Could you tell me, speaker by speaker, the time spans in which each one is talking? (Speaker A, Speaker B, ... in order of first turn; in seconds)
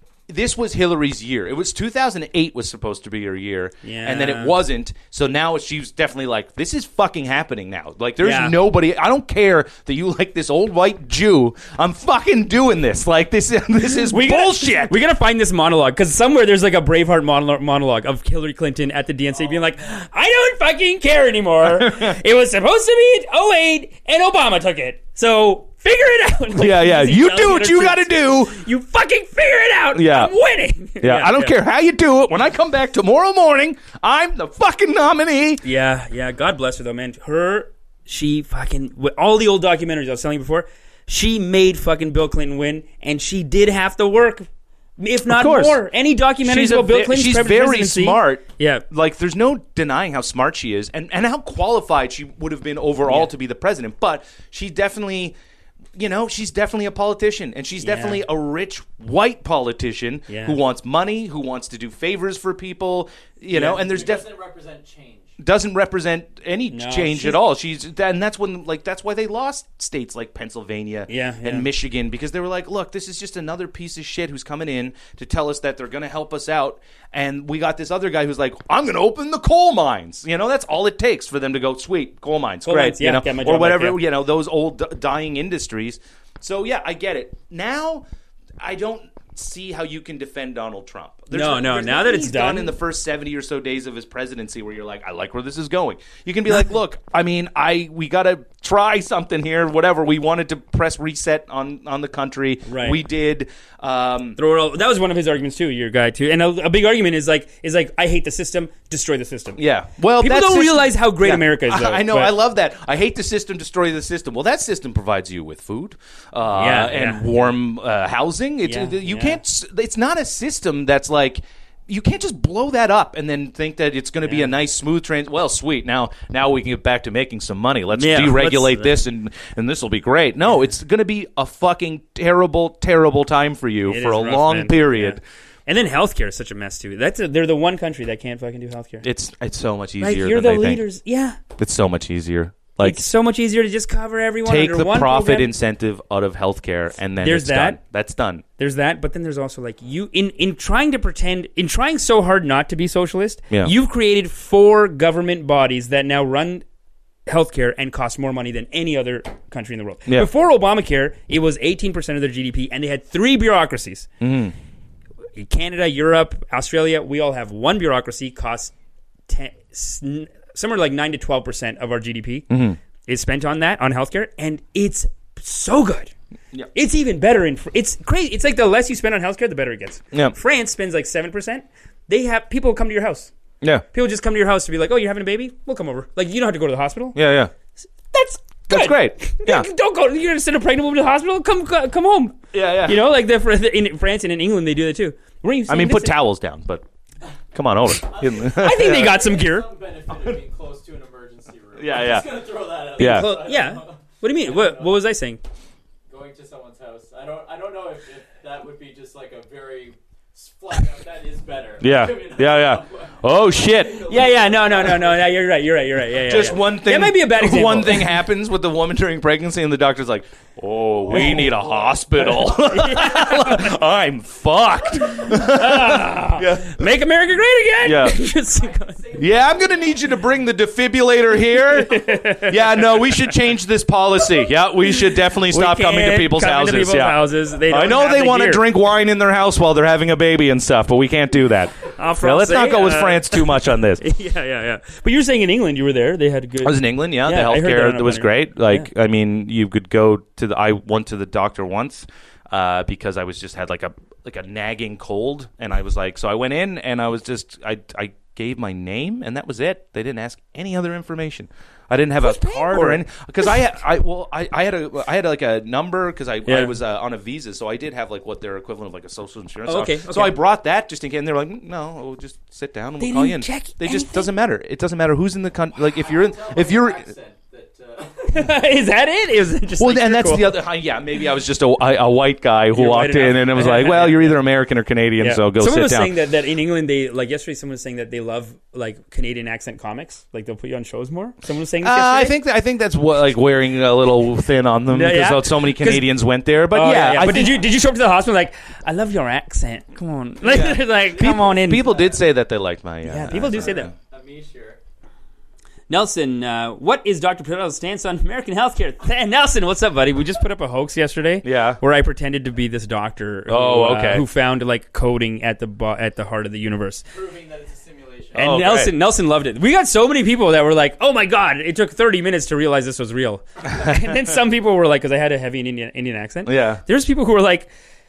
Speaker A: 0.3-15.0, 21.6-22.2, 26.6-28.6, 29.9-30.3, 31.0-35.6, 45.3-45.8, 46.4-55.4, 56.0-64.3, 65.4-88.0, 88.6-104.4, 109.6-135.2, 139.0-140.8, 141.6-143.1, 144.4-148.4, 164.2-164.5, 172.5-172.8, 187.2-187.5, 188.7-189.7, 192.5-193.0, 195.7-196.8, 197.5-199.1, 201.8-202.3, 203.0-203.3, 211.8-214.1, 216.2-226.8, 227.8-228.2, 229.2-244.0, 246.6-277.1, 279.8-286.1, 291.8-297.6, 300.4-303.9, 311.4-311.8, 313.5-314.2, 318.4-318.9, 326.5-326.8
Speaker B: 3.8-4.6, 8.2-8.6, 14.1-31.6, 35.6-44.5, 45.0-48.8, 57.8-58.2, 60.3-60.6, 63.5-63.9, 66.7-67.4, 71.1-71.7, 82.7-84.0, 91.3-92.8, 102.7-103.0, 104.4-109.6, 110.2-112.3, 116.5-117.3, 118.6-119.4, 124.2-124.5, 127.9-129.0, 133.9-139.1, 140.0-141.4, 142.8-145.5, 147.2-147.8, 148.6-156.7, 157.3-164.1, 165.3-168.7, 169.3-172.5, 173.1-176.1, 176.7-183.3, 183.9-187.2, 188.1-196.2, 198.4-199.7, 203.0-205.4, 214.0-218.2, 221.1-221.5, 222.4-223.7, 225.1-229.0, 231.8-232.8, 235.5-238.7, 241.9-248.9, 262.2-263.6, 266.5-266.8, 269.6-270.4, 273.0-274.3, 278.3-280.5, 282.7-284.4, 285.2-292.4, 294.9-296.1, 296.7-301.9, 303.1-303.9, 305.9-317.1, 318.3-327.7
Speaker C: 19.4-20.0, 63.8-65.4, 197.9-205.0, 206.1-215.3, 221.1-222.0, 228.3-230.3, 275.8-278.5, 301.7-302.2, 303.3-304.8, 317.1-318.4